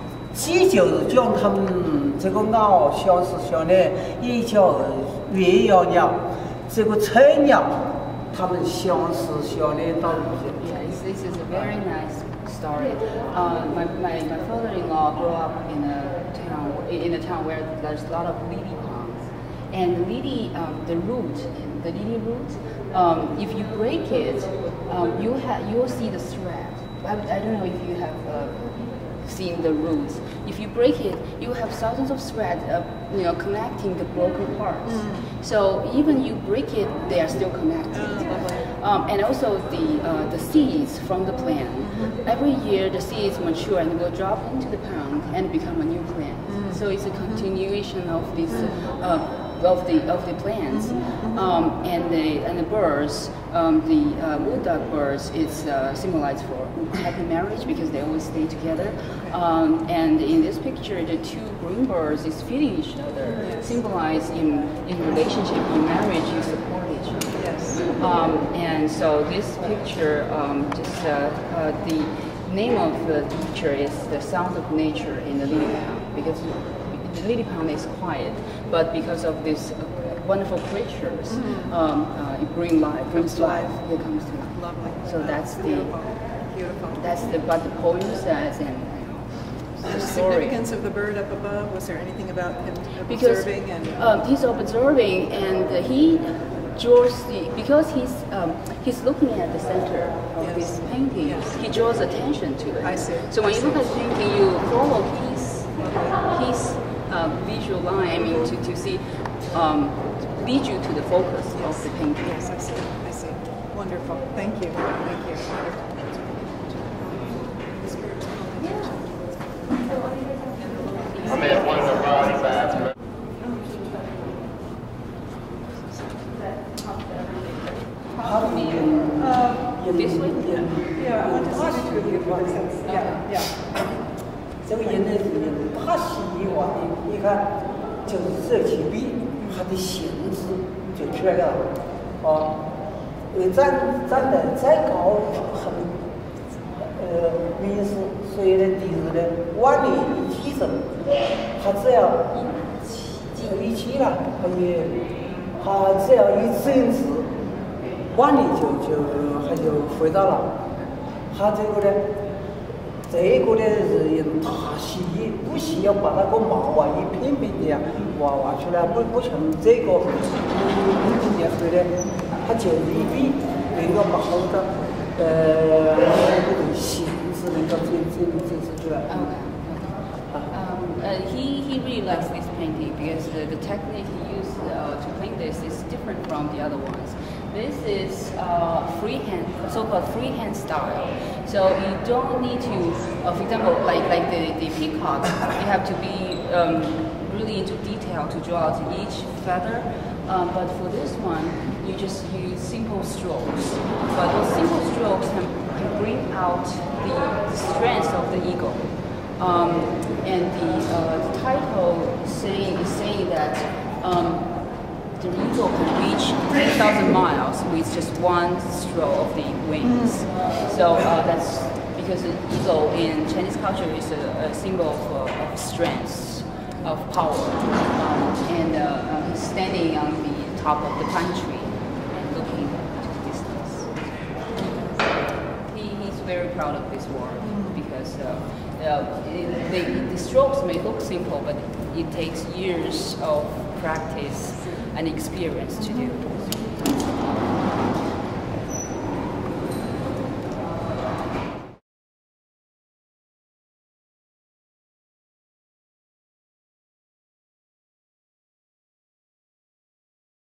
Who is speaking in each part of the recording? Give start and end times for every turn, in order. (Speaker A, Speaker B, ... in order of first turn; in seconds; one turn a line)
Speaker A: 0.3-10.7
Speaker B: 10.6-85.9
Speaker C: 34.9-35.3
Speaker C: 37.9-38.6
Speaker C: 41.8-42.1
Speaker C: 46.5-46.7
Speaker C: 50.8-51.4
Speaker C: 63.4-63.7
Speaker C: 67.3-67.9
Speaker C: 81.3-81.7
Speaker C: 83.2-83.8
Speaker C: 84.5-87.2
Speaker B: 87.0-90.6
Speaker C: 89.8-94.0
Speaker B: 93.1-112.4
Speaker C: 100.4-101.6
Speaker C: 102.8-103.6
Speaker C: 105.8-106.2
Speaker C: 111.6-120.0
Speaker C: 121.0-122.5
Speaker B: 121.2-122.9
Speaker C: 125.6-126.6
Speaker A: 128.2-132.7
Speaker B: 128.3-128.8
Speaker C: 129.2-129.7
Speaker B: 129.9-130.7
Speaker C: 130.9-133.6
Speaker B: 132.8-133.3
Speaker A: 134.7-142.6
Speaker A: 143.3-146.0
Speaker A: 146.8-151.0
Speaker A: 151.5-152.3
Speaker B: 152.3-153.5
Speaker A: 153.4-155.0
Speaker A: 155.5-157.3
Speaker A: 158.1-160.6
Speaker A: 161.3-162.1
Speaker A: 163.1-179.3
Speaker B: 179.1-214.5
Speaker B: 215.1-234.1
Speaker C: 219.8-220.2
Speaker C: 234.5-235.1
Speaker B: 235.6-247.0
Speaker C: 237.4-237.8